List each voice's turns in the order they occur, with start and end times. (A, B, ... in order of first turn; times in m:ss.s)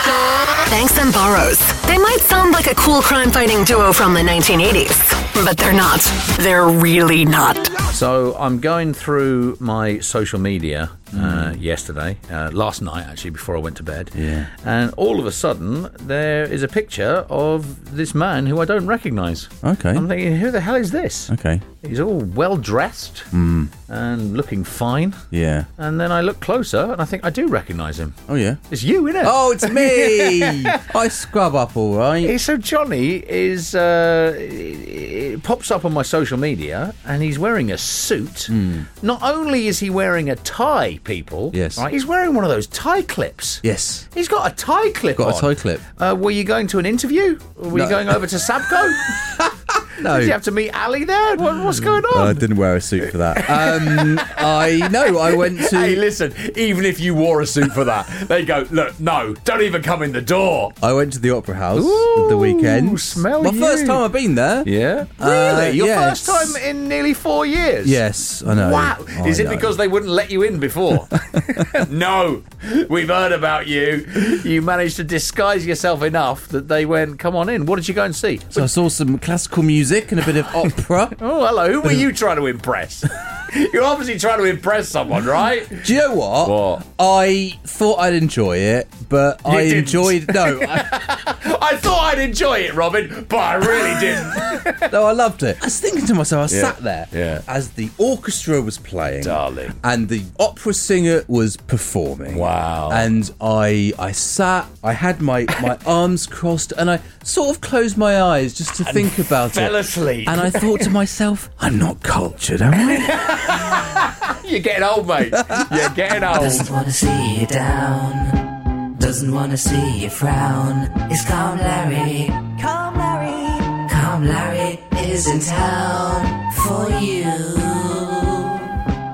0:00.6-0:07.8 A
0:07.9-0:23.3 B
0:11.1-0:11.6 C
0:14.1-0:14.5 C
0:19.6-0:20.0 C
0:21.3-0:21.6 C
0:23.3-0:23.7 C
0:23.9-0:25.2 B
0:25.3-0:25.7 C
0:25.8-0:28.2 B
0:28.3-0:28.6 C
0:28.7-0:30.8 B
0:29.2-0:32.3 C
0:32.2-0:49.4 B
0:38.5-0:38.9 C
0:41.5-0:41.8 C
0:43.6-0:44.0 C
0:45.2-0:45.8 C
0:47.7-0:48.2 C
0:49.4-0:50.4 C
0:50.0-0:52.4 B
0:51.5-0:56.0 C
0:53.1-1:00.7 B
1:00.8-1:06.6 C
1:01.7-1:04.0 B
1:04.6-1:18.7 B
1:07.8-1:09.8 C
1:11.1-1:11.8 C
1:18.5-1:21.2 C
1:21.1-1:25.8 B
1:25.7-1:31.0 C
1:26.4-1:26.8 B
1:29.4-1:34.9 B
1:34.6-1:53.8 C
1:36.5-1:37.4 B
1:39.2-1:39.7 B
1:42.3-1:43.1 B
1:48.8-1:50.9 B
1:53.0-1:56.7 B
1:55.4-1:58.3 C
1:59.0-2:01.9 C
2:00.4-2:04.2 D
2:03.9-2:06.3 C
2:04.8-2:08.4 D